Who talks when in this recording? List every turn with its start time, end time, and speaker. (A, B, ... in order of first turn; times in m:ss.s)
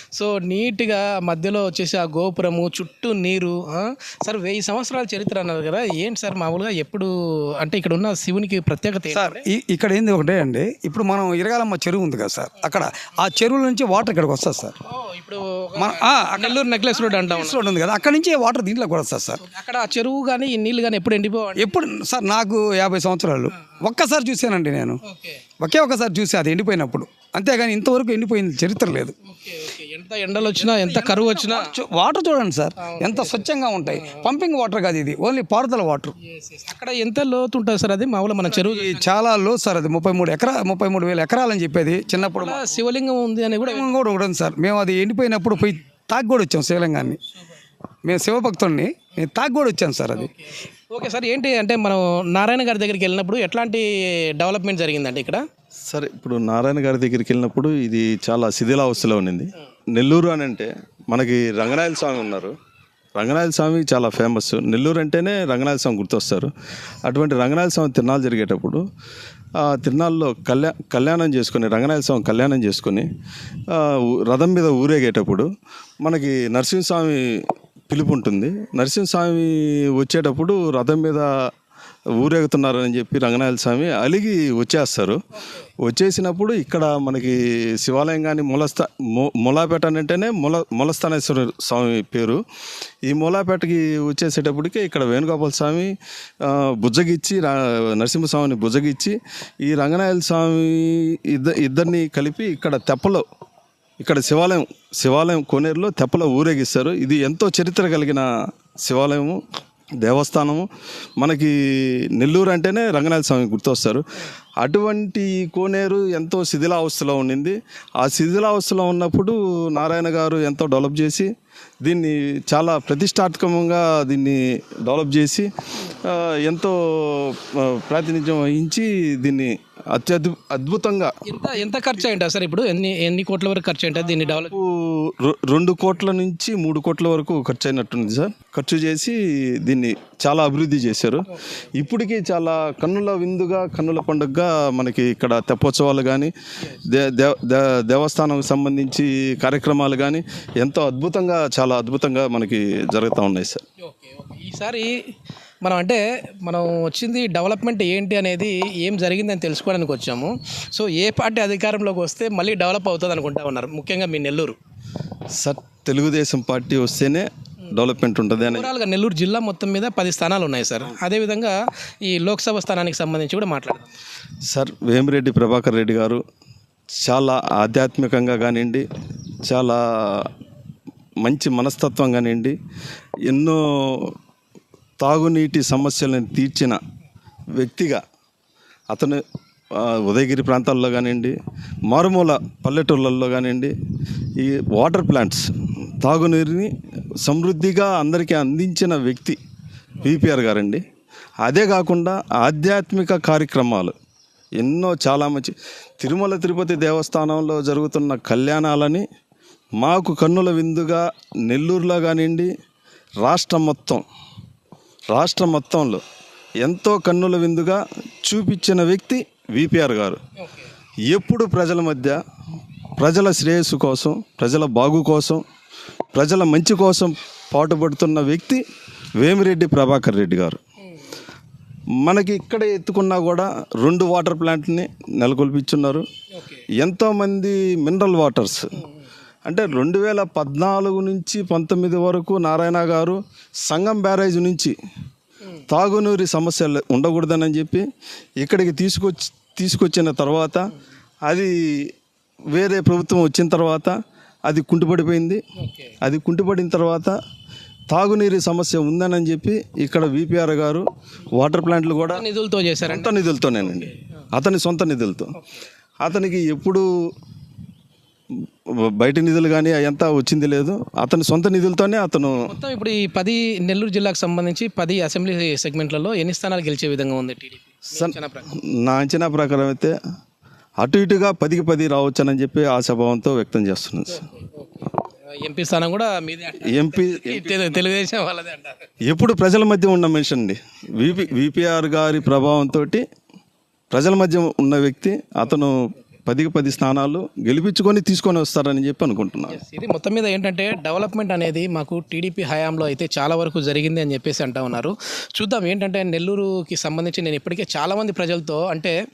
0:00.1-0:09.4 A
0:09.1-0:14.8 B
0:14.9-0:17.6 A
0:15.8-0:19.4 B
0:19.4-0:21.7 A
0:21.6-0:25.0 B
0:25.1-0:25.4 A
0:25.6-0:29.1 B
0:29.2-0:31.7 A
0:30.5-0:36.1 B
0:32.8-0:34.3 A
0:36.2-0:39.1 A
0:38.5-0:42.6 B
0:42.2-0:43.9 A
0:43.6-0:47.2 B
0:48.0-0:50.3 B
0:50.1-0:53.9 A
0:54.4-0:55.4 A
0:55.9-1:02.5 C
1:03.2-1:06.5 C
1:07.1-1:08.8 C
1:09.6-1:13.1 C
1:13.7-1:15.5 C
1:16.0-1:21.3 C
1:22.2-1:25.2 C
1:25.8-1:32.4 C
1:33.1-1:43.2 C
1:44.0-1:48.3 C
1:48.8-1:49.4 C
1:50.0-1:50.7 C
1:51.2-1:54.0 C
1:54.6-2:01.3 C
2:01.8-2:11.1 C
2:11.3-2:14.6 A
2:14.3-2:21.3 C
2:21.8-2:26.3 C
2:26.8-2:33.6 C
2:33.8-2:34.9 A
2:35.6-2:44.6 A
2:45.4-2:48.7 C
2:48.4-2:51.6 A
2:52.1-2:53.9 A
2:54.5-2:56.2 C
2:57.0-2:58.8 C
2:59.5-3:00.3 C
3:01.2-3:02.6 C
3:03.3-3:04.2 C
3:05.0-3:06.8 C
3:07.6-3:08.0 C
3:08.9-3:09.2 C
3:09.8-3:11.4 C
3:11.9-3:13.7 C
3:14.4-3:15.5 C
3:16.0-3:19.4 C
3:20.0-3:20.8 C
3:21.4-3:23.9 C
3:24.6-3:29.0 C
3:29.8-3:32.5 C
3:33.2-3:34.0 C
3:35.1-3:36.0 C
3:36.6-3:40.2 C
3:40.4-3:40.7 A
3:41.1-3:42.2 C
3:43.0-3:45.4 C
3:46.1-3:48.6 C
3:49.2-3:50.6 C
3:52.0-3:56.0 C
3:56.4-3:56.6 A
3:56.8-3:58.8 C
3:59.5-4:04.8 C
4:05.7-4:07.8 C
4:08.4-4:10.7 C
4:11.3-4:11.9 C
4:12.5-4:13.9 C
4:14.5-4:15.4 C
4:15.6-4:15.9 A
4:16.0-4:17.2 C
4:17.9-4:22.2 C
4:22.1-4:24.0 A
4:22.9-4:25.4 C
4:26.0-4:26.8 C
4:28.8-4:32.5 C
4:32.5-4:38.5 A
4:38.0-4:39.9 C
4:40.8-4:44.2 C
4:44.1-4:48.9 A
4:46.6-4:47.5 C
4:49.1-4:53.0 C
4:53.9-4:59.6 C
4:59.5-5:08.9 A